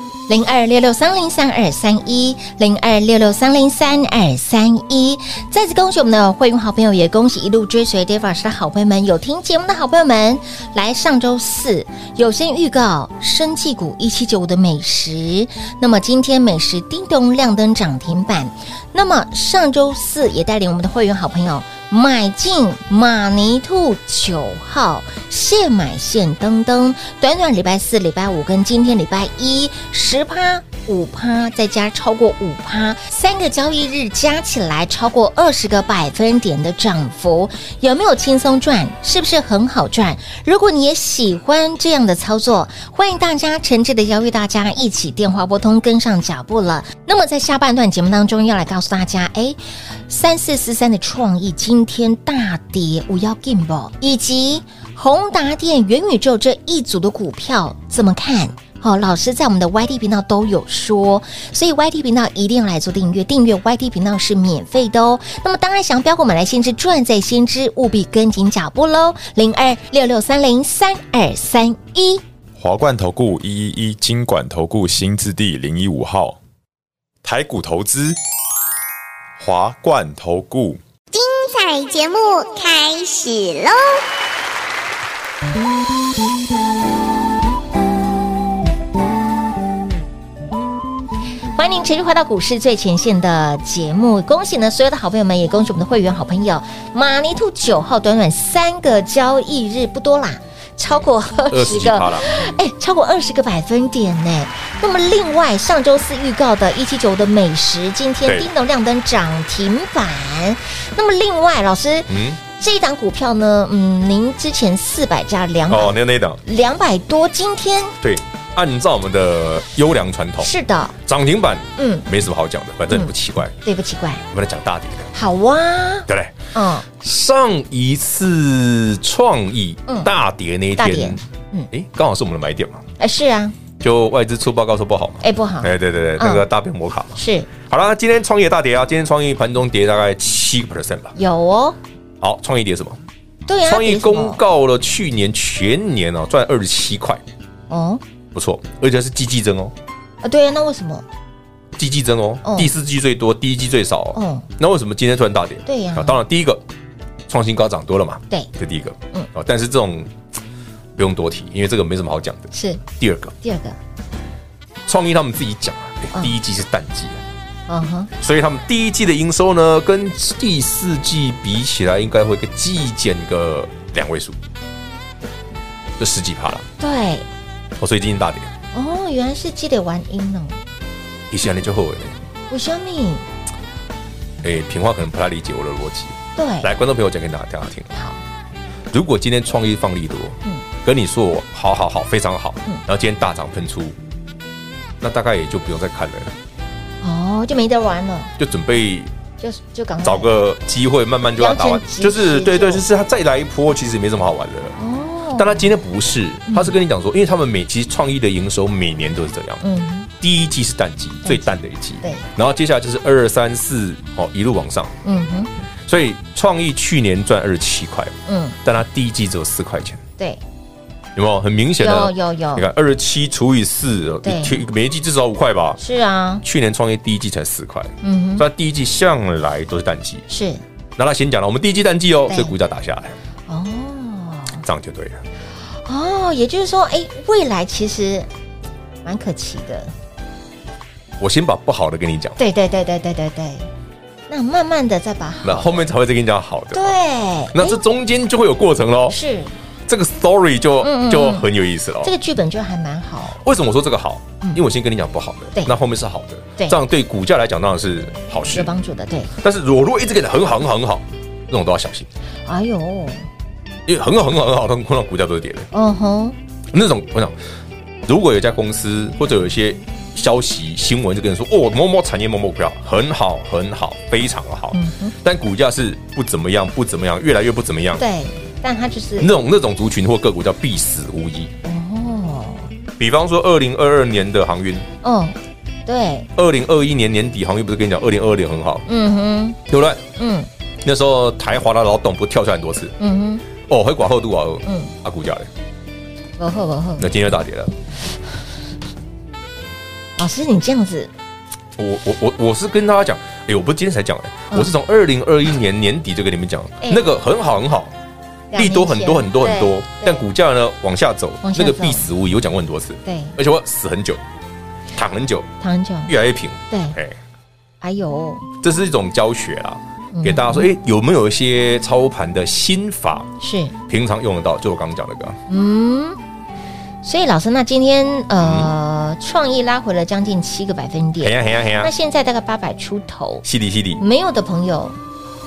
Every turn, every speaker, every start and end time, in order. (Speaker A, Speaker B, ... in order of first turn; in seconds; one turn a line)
Speaker A: 0.3-72.2
Speaker B: 72.6-76.4
Speaker B: 77.2-78.2
Speaker B: 79.4-80.8
Speaker C: 81.1-84.0
Speaker A: 91.5-118.0
Speaker D: 101.5-102.3
Speaker D: 108.2-108.5
Speaker D: 112.1-112.4
Speaker D: 115.7-116.4
Speaker D: 118.0-120.5
Speaker A: 120.4-120.9
Speaker D: 121.0-123.5
Speaker A: 121.8-122.0
Speaker A: 123.6-124.2
Speaker D: 124.3-125.1
Speaker A: 125.1-126.8
Speaker D: 126.1-126.3
Speaker D: 126.8-132.8
Speaker A: 130.8-131.7
Speaker A: 133.0-133.5
Speaker D: 133.8-141.1
Speaker A: 135.2-136.4
Speaker A: 137.2-137.5
Speaker A: 141.2-141.8
Speaker D: 142.2-143.0
Speaker A: 143.5-144.4
Speaker D: 143.7-147.2
Speaker A: 147.7-148.0
Speaker D: 148.3-149.7
Speaker A: 150.2-151.0
Speaker D: 151.8-156.6
Speaker A: 152.4-152.7
Speaker A: 154.1-154.5
Speaker A: 155.7-156.2
Speaker D: 157.3-160.1
Speaker D: 160.9-163.3
Speaker A: 162.5-162.8
Speaker A: 163.4-163.8
Speaker D: 164.8-167.2
Speaker A: 167.7-168.1
Speaker D: 168.2-174.4
Speaker D: 176.0-176.7
Speaker A: 176.8-177.3
Speaker D: 177.8-178.5
Speaker A: 178.7-180.6
Speaker D: 181.3-182.2
Speaker A: 182.5-183.2
Speaker D: 184.4-187.9
Speaker A: 186.4-186.7
Speaker D: 188.9-194.0
Speaker D: 195.0-196.3
Speaker A: 197.0-198.3
Speaker D: 198.4-199.1
Speaker A: 199.4-200.3
Speaker D: 200.0-204.8
Speaker A: 201.4-202.8
Speaker A: 204.8-205.7
Speaker D: 205.3-209.6
Speaker A: 206.5-206.7
Speaker A: 209.6-210.1
Speaker D: 210.2-214.9
Speaker A: 211.2-212.2
Speaker A: 215.0-215.5
Speaker D: 215.8-220.0
Speaker A: 218.3-218.6
Speaker D: 221.1-225.8
Speaker A: 221.8-222.7
Speaker A: 224.2-224.6
Speaker A: 225.8-226.4
Speaker D: 226.4-230.2
Speaker A: 228.0-228.4
Speaker A: 230.3-230.6
Speaker D: 231.0-233.2
Speaker A: 232.3-232.5
Speaker A: 233.5-234.6
Speaker D: 234.6-235.2
Speaker A: 235.7-238.3
Speaker A: 239.0-239.9
Speaker D: 241.2-242.4
Speaker A: 242.4-243.7
Speaker A: 244.3-245.9
Speaker D: 245.4-246.9
Speaker A: 246.7-247.8
Speaker D: 247.5-249.2
Speaker A: 249.1-249.5
Speaker D: 249.9-252.1
Speaker A: 250.8-251.5
Speaker A: 252.0-253.4
Speaker D: 253.4-258.7
Speaker A: 258.5-259.3
Speaker D: 259.4-262.1
Speaker A: 262.4-263.2
Speaker D: 263.9-265.7
Speaker A: 265.7-266.4
Speaker D: 266.7-267.4
Speaker D: 268.0-278.0
Speaker A: 274.7-275.1
Speaker A: 278.0-279.3
Speaker D: 279.2-281.5
Speaker A: 281.6-282.6
Speaker D: 283.0-284.9
Speaker A: 285.0-286.3
Speaker D: 286.4-288.8
Speaker A: 288.9-289.6
Speaker D: 289.7-290.0
Speaker A: 290.2-290.5
Speaker D: 290.8-292.9
Speaker A: 293.0-293.4
Speaker D: 293.6-295.5
Speaker A: 294.6-294.9
Speaker A: 296.4-297.1
Speaker D: 297.0-297.7
Speaker A: 300.2-301.1
Speaker D: 301.8-307.9
Speaker A: 306.8-307.1
Speaker A: 308.5-310.2
Speaker D: 308.5-314.2
Speaker A: 311.4-312.1
Speaker A: 313.0-313.4
Speaker D: 314.9-315.5
Speaker A: 315.6-316.1
Speaker D: 316.1-317.2
Speaker A: 316.7-316.9
Speaker A: 317.8-318.5
Speaker D: 318.6-323.3
Speaker A: 320.1-320.7
Speaker A: 323.4-323.7
Speaker D: 323.9-325.4
Speaker A: 325.5-326.2
Speaker A: 327.0-333.4
Speaker D: 328.4-328.7
Speaker D: 331.2-331.9
Speaker D: 333.4-334.0
Speaker A: 334.0-334.9